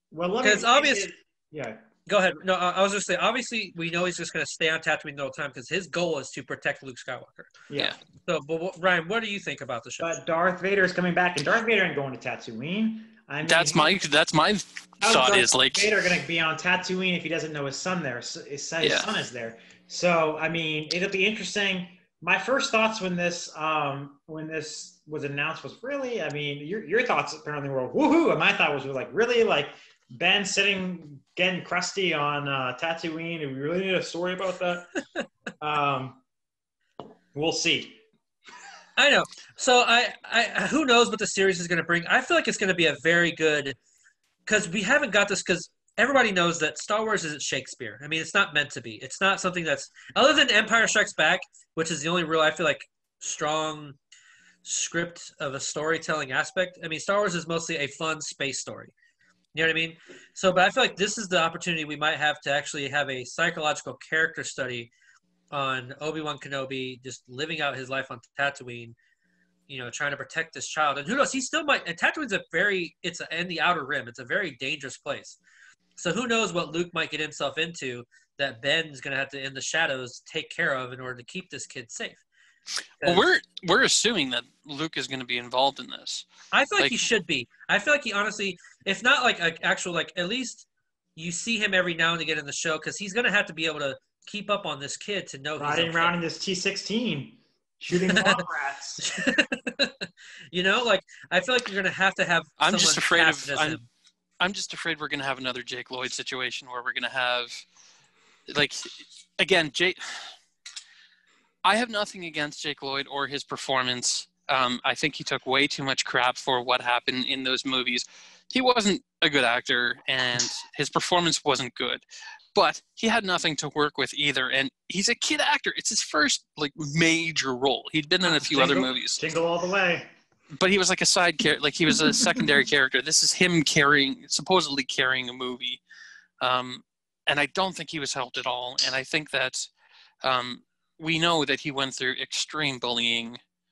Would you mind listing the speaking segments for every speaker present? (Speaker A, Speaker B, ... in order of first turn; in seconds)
Speaker A: 0.1-1.8, 7.7-7.9, 10.0-13.9, 15.0-34.9, 35.6-36.2, 37.3-38.0, 95.6-99.0, 128.2-130.1, 132.0-132.4
Speaker B: 0.4-1.1, 2.0-7.5, 8.2-10.1, 39.0-43.8, 44.5-54.0, 54.6-58.9, 59.5-64.9, 65.5-69.0, 69.7-75.4, 76.0-82.2, 83.0-83.2, 86.5-96.2, 98.1-98.4, 99.0-103.9
Speaker C: 13.4-15.9, 18.8-19.1, 83.0-86.2, 86.8-87.1, 102.6-103.8, 104.4-107.6, 108.5-110.3, 111.6-122.0, 122.5-129.2, 130.5-135.8, 136.4-139.7, 140.2-143.4